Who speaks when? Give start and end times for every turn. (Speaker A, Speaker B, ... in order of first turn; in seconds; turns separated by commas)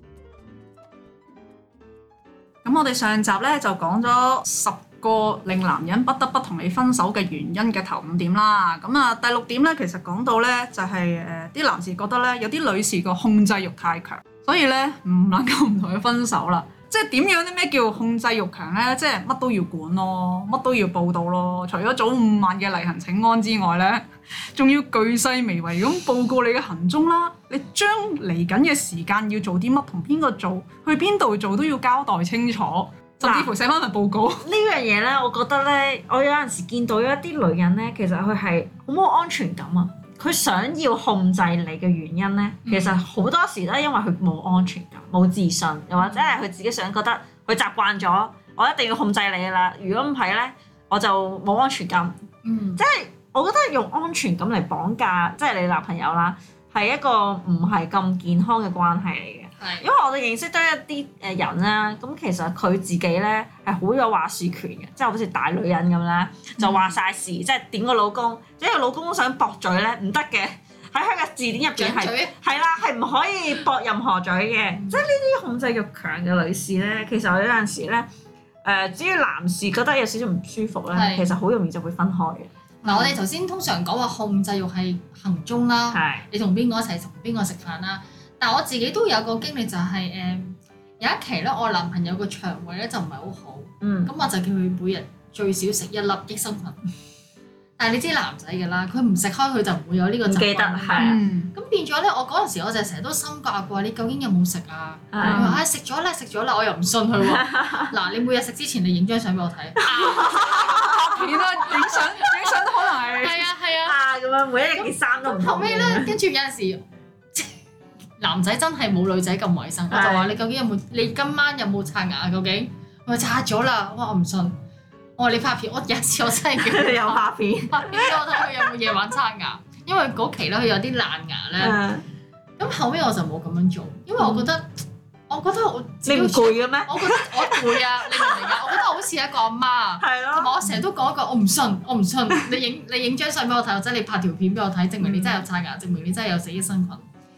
Speaker A: 2.6-34.4, Speaker B: 33.2-33.5, Speaker B: 34.4-52.1, Speaker C: 42.6-43.0, Speaker C: 46.0-46.4, Speaker C: 52.4-52.8, Speaker B: 52.8-78.1, Speaker C: 59.6-59.9, Speaker C: 71.8-72.3, Speaker B: 78.6-83.2, Speaker C: 80.9-81.3, Speaker C: 82.8-96.8, Speaker B: 85.9-86.2, Speaker B: 93.8-94.1, Speaker C: 97.8-114.0, Speaker B: 100.2-101.2, Speaker A: 101.0-101.5, Speaker B: 105.1-105.6, Speaker A: 105.2-105.6, Speaker B: 107.2-107.9, Speaker B: 109.8-111.0, Speaker A: 110.8-113.5, Speaker B: 113.8-116.1, Speaker C: 114.8-116.8, Speaker C: 118.2-124.6, Speaker B: 119.9-120.3, Speaker C: 125.2-131.8, Speaker B: 126.6-128.7, Speaker B: 131.6-132.0, Speaker C: 132.6-147.1, Speaker B: 134.2-134.5, Speaker B: 136.0-138.8, Speaker B: 140.0-140.5, Speaker B: 145.0-145.4